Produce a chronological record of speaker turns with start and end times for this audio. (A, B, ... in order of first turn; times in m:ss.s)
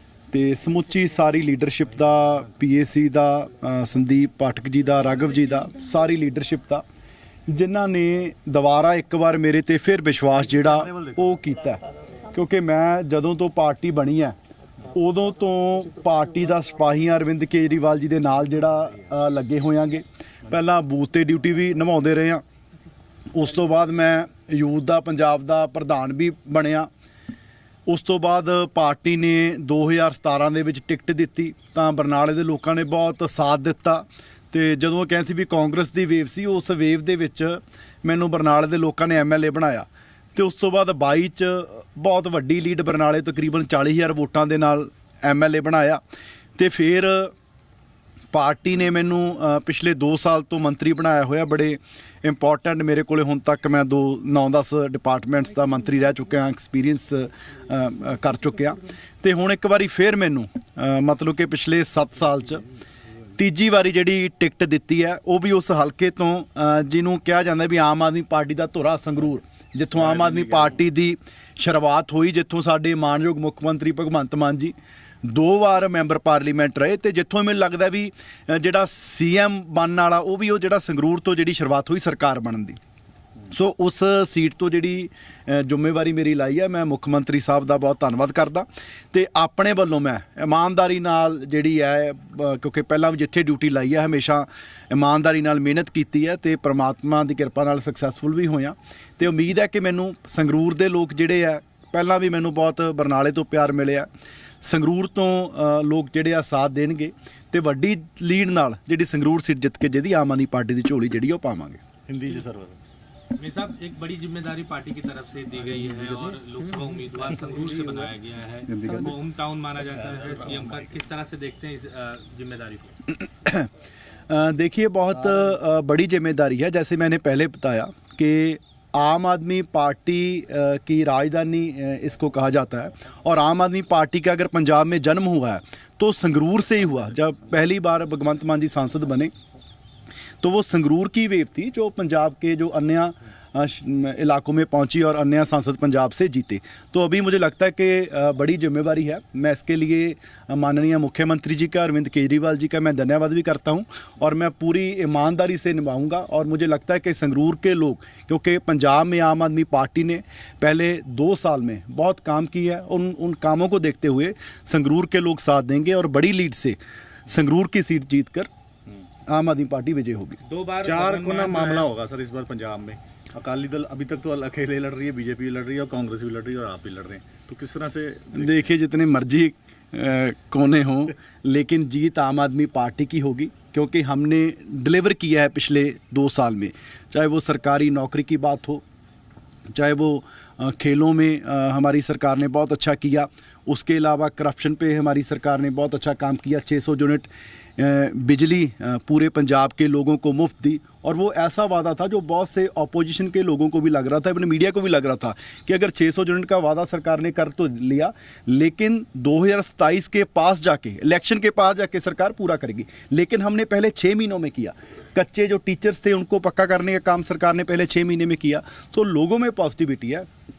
0:00.3-0:06.8 A
0:07.5-0:11.8 A
0:10.6-0:11.3 B
0:12.3-0:14.4 A
0:14.9-0:22.4 A
0:23.3-0:26.9 A
0:27.9-0:46.0 A
0:46.6-0:47.3 A
0:48.3-1:02.6 A
1:03.4-1:22.8 A
1:10.0-1:10.8 B
1:23.5-1:44.1 A
1:44.6-1:51.8 A
1:52.1-1:52.8 B
1:53.4-2:03.0 C
1:57.4-1:58.0 B
1:58.7-1:59.2 B
2:00.0-2:00.8 B
2:03.1-2:03.7 A
2:04.3-2:19.3 A
2:20.4-2:48.5 A
2:49.3-2:50.4 A
2:50.4-2:51.9 C
2:50.8-2:58.7 B
2:58.3-3:08.8 A
3:09.7-3:40.3 A